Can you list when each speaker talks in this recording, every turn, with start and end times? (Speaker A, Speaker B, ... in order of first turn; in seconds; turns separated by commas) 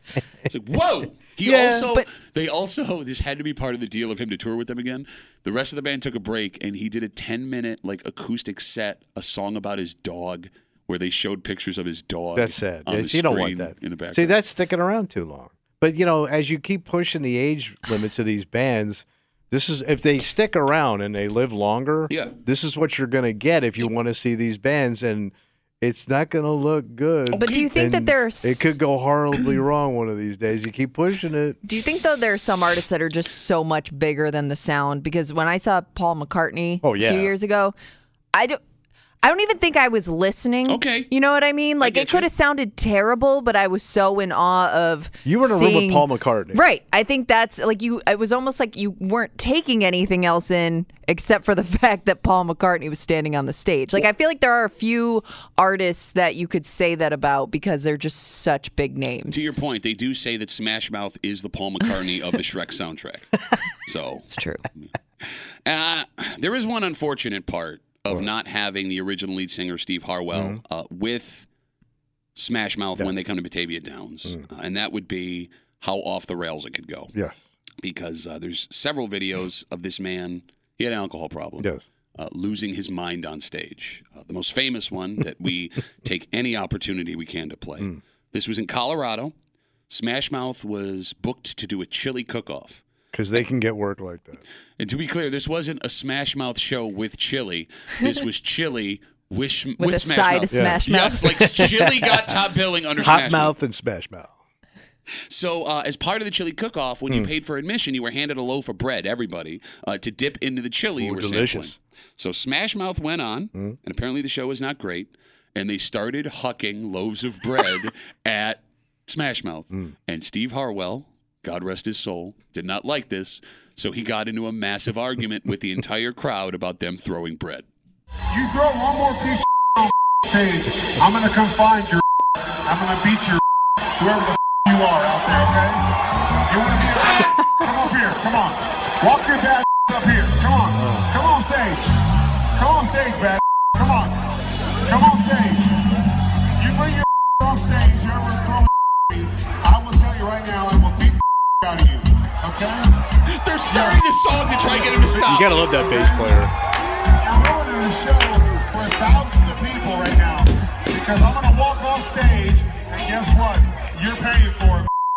Speaker A: 0.5-14.4, Speaker B: 1.4-1.9, Speaker B: 12.4-31.6, Speaker A: 22.1-22.4, Speaker A: 27.3-27.7, Speaker C: 27.3-28.8, Speaker C: 31.6-37.8, Speaker B: 36.8-37.3, Speaker C: 38.3-38.6, Speaker C: 39.2-59.4, Speaker A: 40.7-41.1, Speaker A: 41.8-42.3, Speaker B: 45.2-46.6, Speaker A: 59.3-64.3, Speaker C: 64.3-64.6, Speaker A: 64.8-71.5, Speaker B: 70.3-70.6, Speaker A: 72.4-77.1, Speaker B: 77.1-77.4, Speaker A: 77.8-89.3, Speaker B: 81.6-81.8, Speaker A: 89.9-92.8, Speaker B: 93.1-94.4, Speaker A: 94.8-103.5, Speaker C: 99.8-101.6, Speaker B: 100.5-102.2, Speaker B: 103.0-104.3, Speaker A: 105.3-127.7, Speaker B: 111.0-111.8, Speaker D: 128.3-132.0, Speaker D: 132.7-133.4, Speaker D: 134.0-135.9, Speaker D: 136.5-141.9, Speaker B: 140.8-141.1, Speaker D: 142.6-144.3, Speaker D: 144.8-146.0, Speaker D: 146.6-153.0, Speaker A: 153.3-155.7, Speaker D: 153.7-156.4, Speaker B: 155.2-156.5, Speaker D: 157.2-164.9